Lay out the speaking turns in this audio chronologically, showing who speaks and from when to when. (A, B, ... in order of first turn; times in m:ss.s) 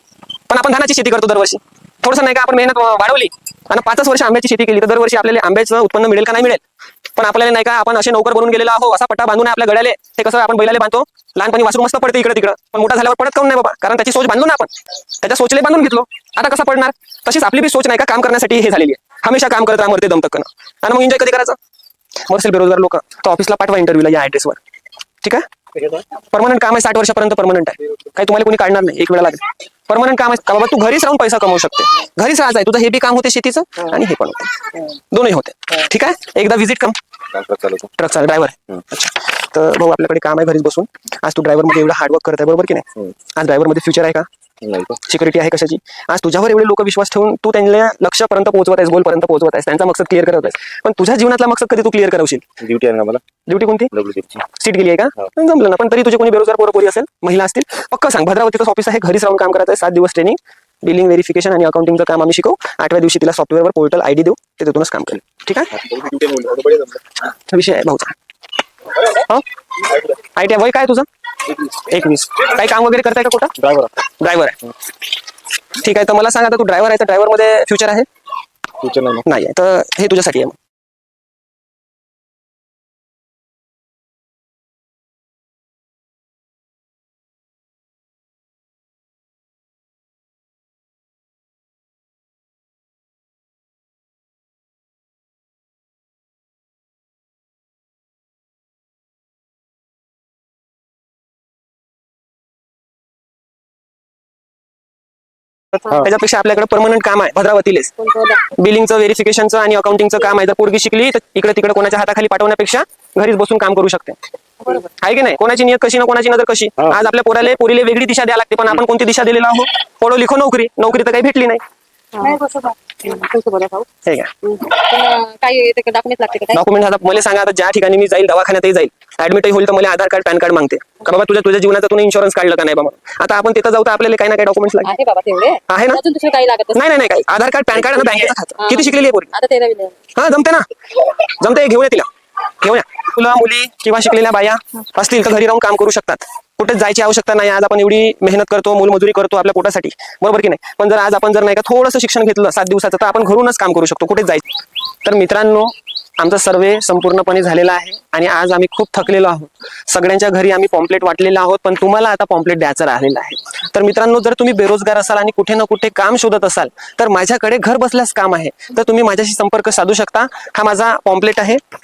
0:00.5-0:06.6 A
0:07.2-0:21.6 A
0:22.2-0:24.6 A
0:26.2-0:37.0 A
0:37.3-0:37.9 B
0:37.9-0:44.3 A
0:44.6-0:45.0 B
0:44.9-0:52.5 A
0:52.6-0:53.2 B
0:53.5-1:05.9 A
0:53.9-0:54.4 B
1:05.9-1:06.9 B
1:07.2-1:08.2 A
1:09.0-1:14.7 A
1:13.6-1:13.9 B
1:15.7-1:18.1 A
1:18.8-1:19.2 B
1:19.2-1:20.6 A
1:45.8-2:01.6 A
1:48.1-1:48.4 C
2:02.1-2:03.9 C
2:04.0-2:04.6 A
2:04.5-2:06.6 C
2:06.5-2:14.9 A
2:14.8-2:16.8 C
2:15.7-2:16.0 A
2:16.7-2:19.3 A
2:18.6-2:20.0 C
2:20.1-2:51.6 A